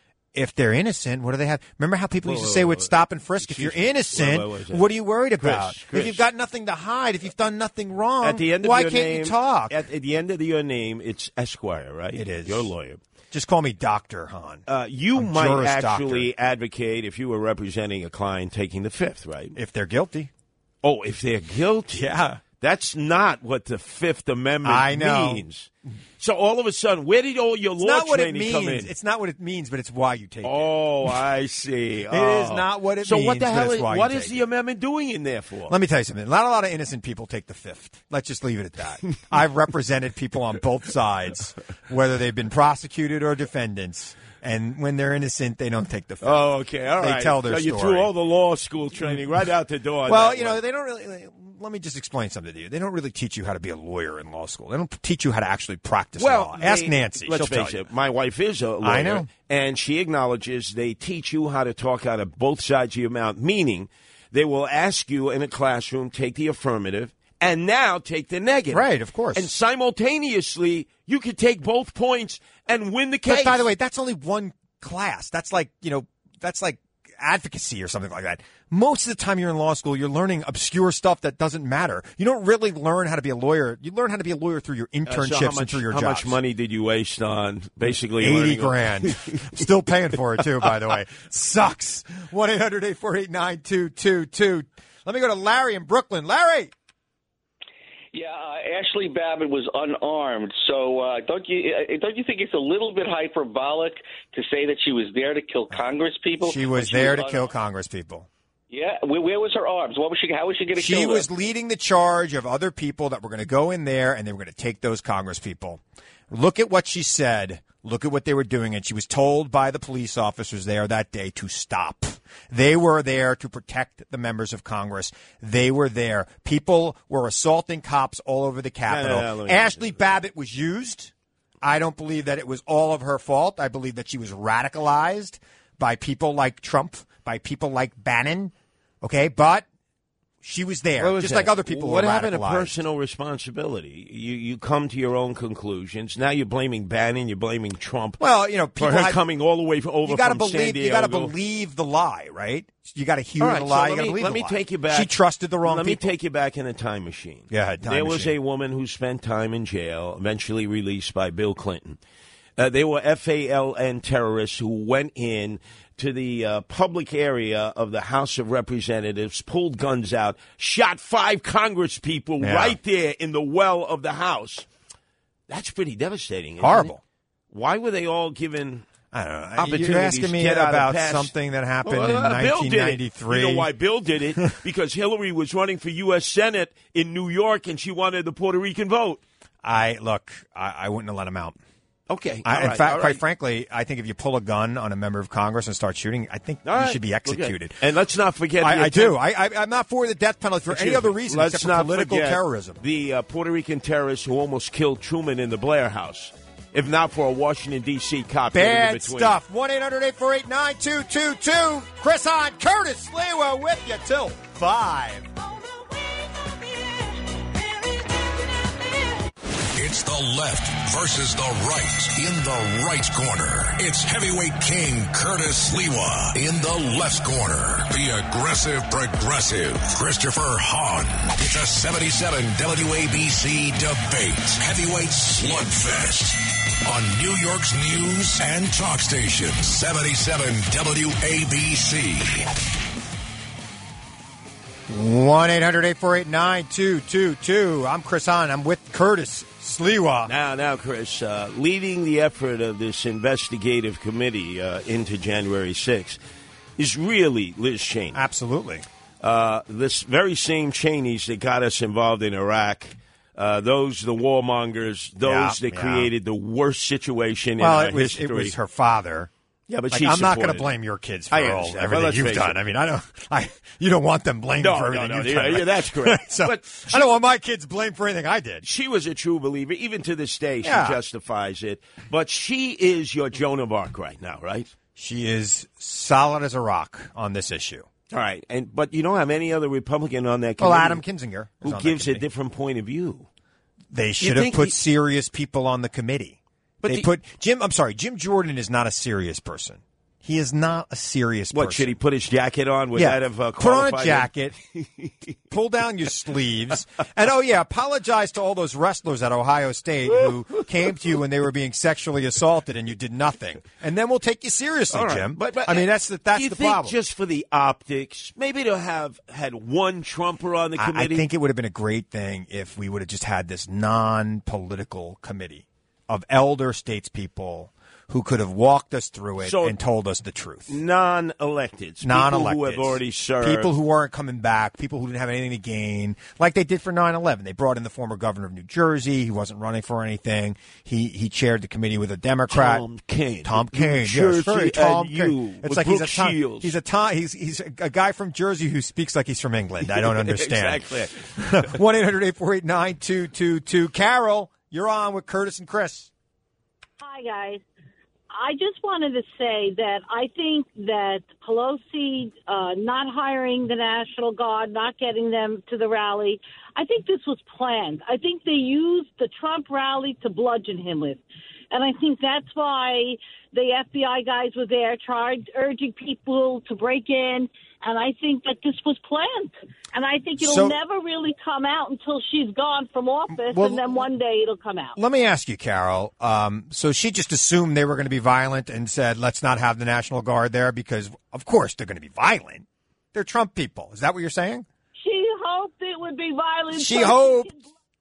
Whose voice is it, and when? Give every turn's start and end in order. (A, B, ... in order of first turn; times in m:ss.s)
0:00.3-0:09.8 A
0:02.2-0:06.2 B
0:08.2-0:13.0 B
0:12.1-0:12.7 A
0:13.3-0:16.3 A
0:14.7-0:19.6 B
0:19.6-0:20.3 A
0:20.8-0:28.9 B
0:22.0-0:22.4 A
0:24.6-0:25.4 A
0:27.8-0:30.7 A
0:30.4-0:35.8 B
0:32.1-0:34.4 A
0:35.7-0:48.1 A
0:46.2-0:50.6 B
0:50.1-0:57.8 A
0:56.2-1:13.7 B
0:58.8-0:59.3 A
1:08.7-1:09.5 A
1:13.3-1:26.4 A
1:25.1-1:29.5 B
1:28.2-1:36.7 A
1:38.1-1:47.5 C
1:46.4-1:48.3 A
1:48.7-1:51.3 C
1:50.8-2:19.7 A
2:08.9-2:10.2 B
2:20.4-2:22.7 A
2:21.0-2:28.2 B
2:28.2-2:29.2 A
2:28.8-2:31.3 B
2:30.0-2:36.1 A
2:33.4-2:42.0 B
2:37.5-2:38.3 A
2:42.6-2:54.7 B
2:52.4-2:52.8 A
2:55.5-2:56.9 B
2:56.6-2:57.0 A
2:57.5-2:58.9 B
2:59.1-3:03.7 A
2:59.6-3:01.3 B
3:01.8-3:09.2 B
3:09.6-3:11.6 A
3:12.1-3:13.2 B
3:12.4-3:17.8 A
3:16.6-3:19.2 B
3:18.6-3:22.8 A
3:20.7-3:29.4 B
3:28.5-3:35.3 A
3:39.8-4:02.5 D
4:04.9-4:10.3 A
4:10.3-4:16.2 B
4:16.8-4:18.2 B
4:18.1-4:18.8 A
4:19.2-4:28.6 B
4:25.2-4:26.1 A
4:27.6-4:29.3 A
4:29.7-4:30.7 B
4:29.9-4:38.6 A
4:31.3-4:32.6 B
4:34.6-4:37.2 B
4:38.6-4:44.7 B
4:40.6-4:41.0 A
4:45.0-4:47.9 A
4:48.1-4:51.0 B
4:50.6-4:52.2 A
4:51.6-4:53.3 B
4:53.9-5:01.9 A
4:54.2-4:54.8 B
4:56.8-4:57.1 B
5:01.5-5:05.1 B
5:03.0-5:04.6 A
5:05.5-5:17.0 A
5:14.9-5:21.3 B
5:20.8-5:30.8 A
5:29.4-5:29.8 B
5:30.7-5:33.7 B
5:32.0-5:42.8 A
5:42.5-5:46.8 B
5:43.4-5:56.1 A
5:49.9-5:51.7 B
5:57.0-5:57.6 E
5:58.3-6:25.0 E
6:20.4-6:20.8 A
6:23.4-6:24.0 A
6:25.0-6:34.7 A
6:35.0-6:37.7 E
6:36.7-6:37.5 A